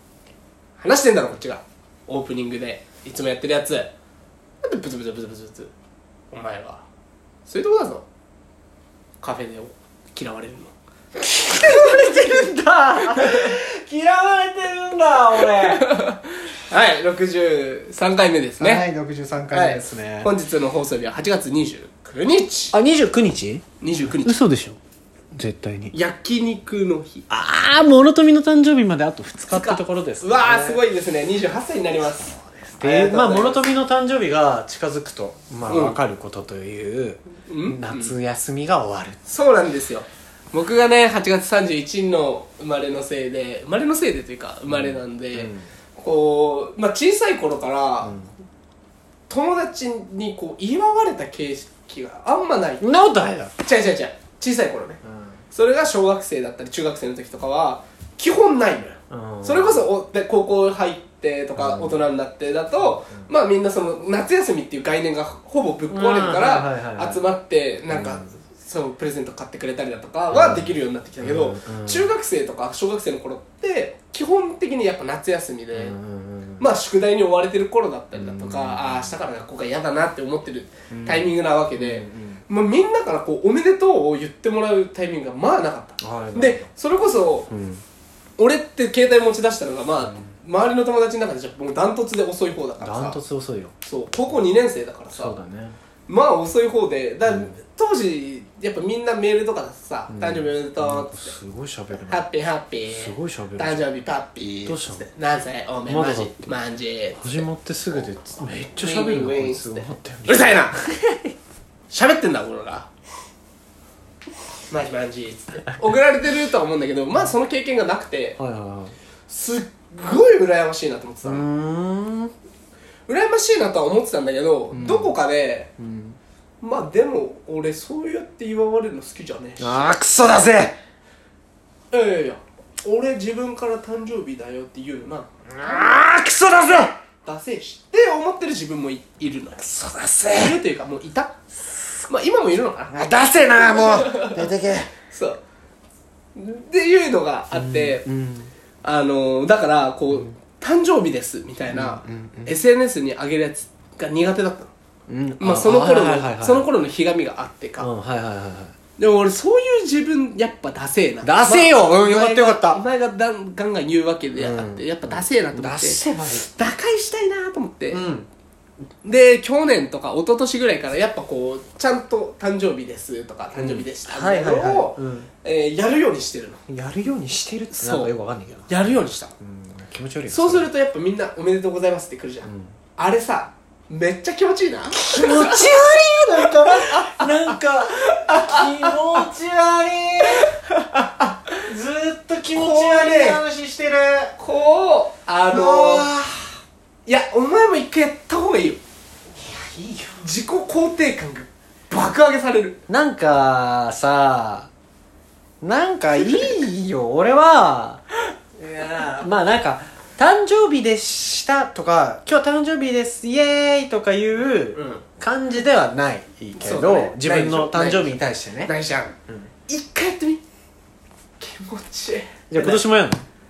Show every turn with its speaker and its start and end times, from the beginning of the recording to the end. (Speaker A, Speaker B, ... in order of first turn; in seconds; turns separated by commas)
Speaker A: 0.8-3.9, Speaker A: 4.6-5.7, Speaker A: 6.3-6.8, Speaker A: 7.5-8.1, Speaker A: 9.2-10.7, Speaker B: 11.2-15.9, Speaker A: 11.6-12.3, Speaker A: 13.1-13.5, Speaker A: 15.4-18.8, Speaker B: 18.6-20.3, Speaker A: 19.5-22.7, Speaker B: 22.7-24.8, Speaker A: 23.8-24.4, Speaker B: 25.3-25.9, Speaker A: 25.9-27.2, Speaker B: 27.3-30.8, Speaker A: 29.5-33.6, Speaker B: 32.1-39.2, Speaker A: 35.7-36.0, Speaker A: 37.4-38.1, Speaker A: 39.2-48.2, Speaker B: 44.7-45.7, Speaker B: 48.0-48.3, Speaker A: 49.3-52.9, Speaker B: 52.8-53.5, Speaker A: 53.6-55.0, Speaker B: 55.0-55.4, Speaker A: 55.5-76.0, Speaker B: 59.1-59.8, Speaker B: 61.5-62.0, Speaker B: 65.9-67.2, Speaker B: 67.9-68.2, Speaker B: 70.3-72.1, Speaker B: 75.7-76.7, Speaker A: 76.6-87.5, Speaker B: 78.1-79.2, Speaker B: 80.9-82.4, Speaker B: 86.0-86.6, Speaker B: 87.5-87.8, Speaker A: 88.4-93.2, Speaker B: 90.0-90.3, Speaker B: 92.8-93.7, Speaker A: 93.8-95.3, Speaker B: 95.1-95.8, Speaker A: 96.1-101.3, Speaker B: 97.2-97.5, Speaker B: 100.1-102.3, Speaker A: 102.1-108.1, Speaker B: 102.9-103.8, Speaker B: 104.5-105.1, Speaker B: 105.8-106.6, Speaker B: 107.2-111.3, Speaker A: 108.7-110.8, Speaker A: 111.9-112.9, Speaker A: 114.7-118.4, Speaker B: 118.4-118.9, Speaker A: 119.3-121.5, Speaker B: 121.2-122.3, Speaker A: 123.1-125.7, Speaker B: 124.7-125.2, Speaker B: 125.8-126.2, Speaker A: 126.6-129.9, Speaker B: 129.6-130.8, Speaker A: 131.9-135.8, Speaker B: 135.5-137.0, Speaker A: 137.2-139.7, Speaker B: 139.6-140.6, Speaker A: 140.3-143.0, Speaker B: 142.9-144.9, Speaker A: 143.5-144.5, Speaker A: 145.1-145.4, Speaker A: 146.3-148.0, Speaker B: 147.5-148.5, Speaker A: 148.8-154.7, Speaker B: 151.7-152.5, Speaker B: 155.1-156.7, Speaker A: 155.4-157.9, Speaker B: 157.8-158.7, Speaker A: 159.0-168.1, Speaker B: 161.2-162.8, Speaker B: 164.3-166.5, Speaker B: 167.9-168.3, Speaker A: 169.0-176.6, Speaker B: 173.5-175.3, Speaker B: 176.7-180.7, Speaker A: 177.7-178.1, Speaker A: 178.7-179.3, Speaker A: 180.3-185.8, Speaker B: 182.4-182.8, Speaker B: 184.9-194.3, Speaker A: 186.6-187.3, Speaker A: 188.1-189.0, Speaker A: 192.5-193.4, Speaker A: 194.4-196.1, Speaker B: 195.5-196.6, Speaker A: 197.1-198.8, Speaker B: 199.3-200.3, Speaker A: 200.2-202.8, Speaker B: 202.9-204.7, Speaker B: 205.6-208.0, Speaker B: 208.6-218.7, Speaker A: 208.7-209.2, Speaker A: 214.7-215.0, Speaker A: 216.6-219.1, Speaker A: 219.7-220.4, Speaker A: 221.4-222.8, Speaker B: 222.5-223.2